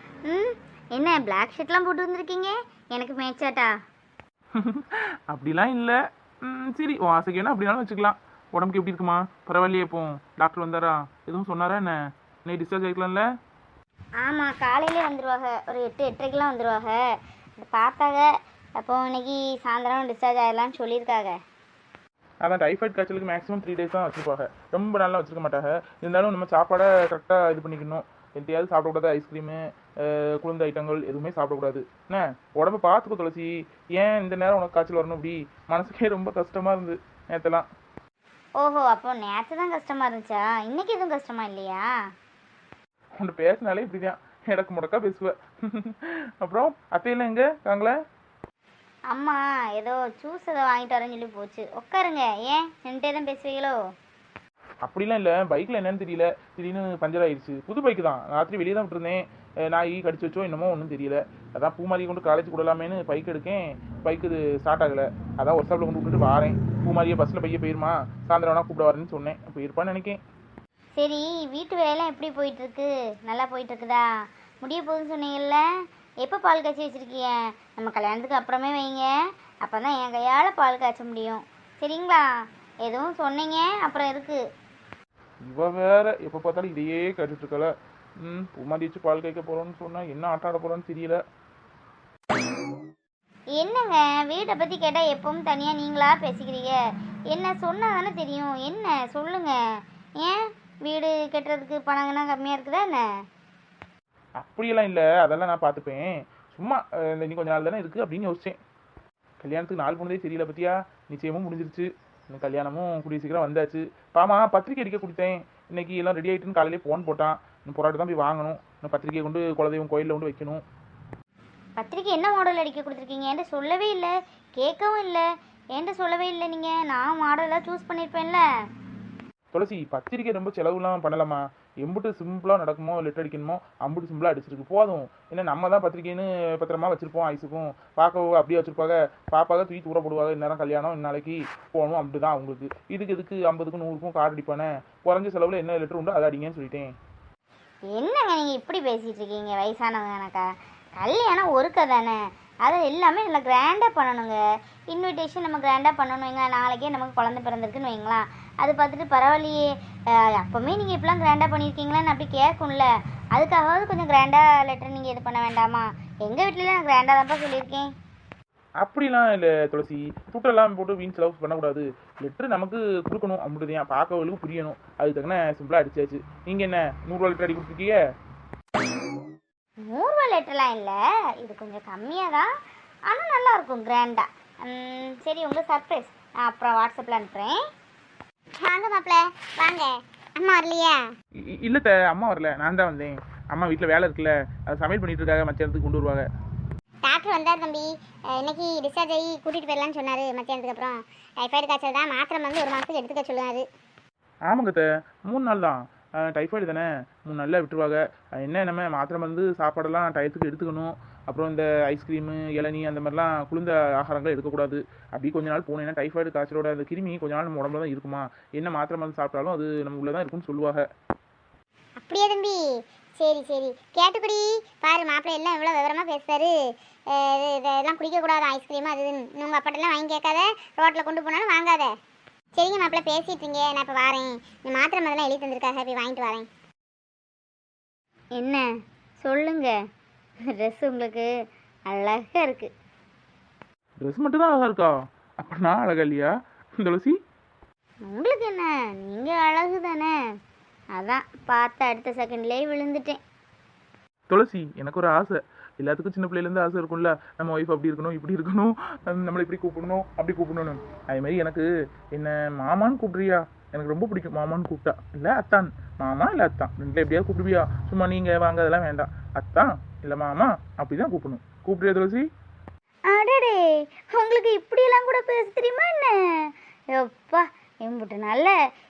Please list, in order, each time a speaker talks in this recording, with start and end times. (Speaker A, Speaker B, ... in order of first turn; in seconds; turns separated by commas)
Speaker A: 0.3-3.7, Speaker B: 4.5-11.9, Speaker B: 12.4-13.2, Speaker A: 14.2-17.0, Speaker A: 17.6-18.2, Speaker A: 18.8-21.3, Speaker B: 22.4-37.6, Speaker A: 38.6-41.8, Speaker B: 43.2-47.9, Speaker A: 49.1-53.7, Speaker B: 54.9-70.2, Speaker A: 71.0-74.1, Speaker A: 74.6-75.6, Speaker A: 76.2-79.0, Speaker A: 79.6-82.2, Speaker A: 82.8-84.4, Speaker B: 85.5-91.2, Speaker A: 93.6-96.8, Speaker A: 97.3-99.5, Speaker A: 100.2-103.0, Speaker B: 104.4-108.6, Speaker B: 109.4-120.6, Speaker A: 121.8-125.2, Speaker A: 125.7-128.4, Speaker B: 129.5-146.9, Speaker A: 147.9-150.4, Speaker A: 151.0-154.4, Speaker A: 154.9-159.7, Speaker A: 160.4-167.9, Speaker B: 168.8-178.0, Speaker A: 179.9-182.5, Speaker A: 183.1-187.6, Speaker C: 188.7-191.0, Speaker B: 191.6-196.2, Speaker C: 197.0-203.6, Speaker B: 204.5-220.8, Speaker C: 222.0-222.6, Speaker C: 223.2-226.5, Speaker C: 227.2-231.9, Speaker C: 232.6-236.5, Speaker A: 238.4-238.6, Speaker A: 239.2-239.8, Speaker A: 240.5-241.3, Speaker A: 241.9-242.7, Speaker B: 244.0-247.2, Speaker A: 248.1-250.1, Speaker A: 250.9-253.2, Speaker B: 254.3-272.2, Speaker A: 273.1-273.6, Speaker A: 274.1-276.1, Speaker A: 277.0-278.5